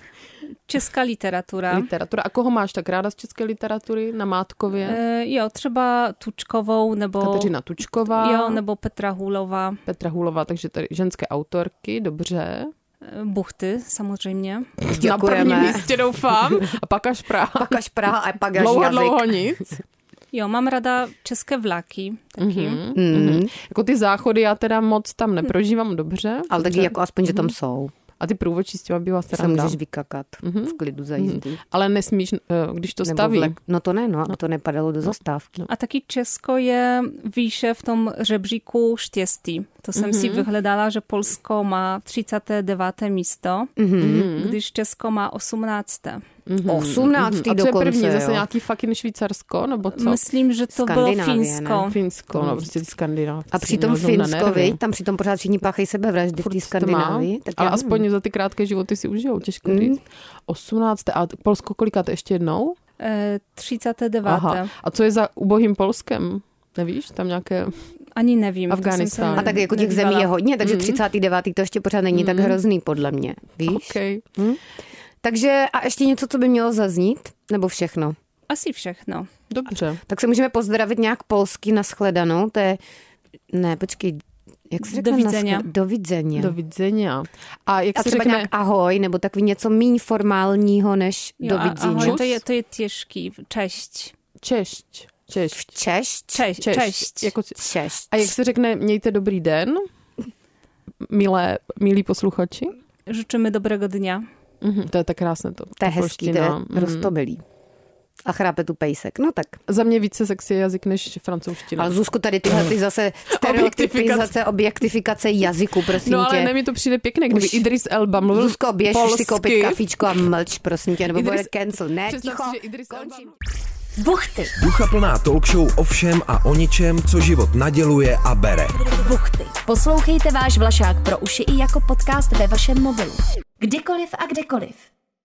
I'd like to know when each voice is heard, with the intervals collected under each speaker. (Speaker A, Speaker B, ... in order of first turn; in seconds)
Speaker A: 0.7-1.9, 4.8-7.5, 8.1-9.8, 13.0-14.7, 20.3-22.8, 35.7-43.8, 44.3-46.2, 49.9-52.0, 63.0-64.7, 68.2-70.3, 78.5-79.3, 84.8-85.7, 91.4-94.1, 96.3-97.3, 103.1-104.2
Speaker B: 1.7-5.0, 7.2-8.6, 9.8-12.7, 14.8-17.8, 18.5-19.7, 22.4-27.5, 28.2-29.8, 30.4-33.5, 39.9-40.5, 44.0-44.6, 46.5-50.2, 51.8-54.8, 56.4-62.8, 64.2-67.7, 68.7-69.6, 70.6-71.0, 72.1-72.6, 73.6-74.2, 79.5-80.0, 86.3-88.5, 91.9-92.4, 94.4-95.7, 96.6-97.6, 98.1-99.8, 101.0-102.7, 104.6-107.1, 109.7-111.9, 112.5-112.7, 113.3-114.3, 115.9-120.1, 121.1-121.5, 122.0-123.3
Speaker C: 14.9-15.9, 17.5-19.5, 22.9-23.5, 26.5-27.9, 29.3-31.6, 33.0-35.6, 43.8-44.3, 46.7-48.4, 50.7-52.7, 53.5-58.0, 59.6-60.0, 69.3-74.6, 75.2-78.1, 80.1-82.8, 83.5-86.5, 88.0-92.2, 95.5-96.5, 97.6-98.3, 105.8-107.4, 108.2-109.6, 111.8-116.5, 117.3-117.6, 118.3-123.3, 124.0-124.5, 129.0-132.7, 133.6-134.3
Speaker D: 124.0-124.5, 128.9-134.8
Speaker E: 124.5-128.8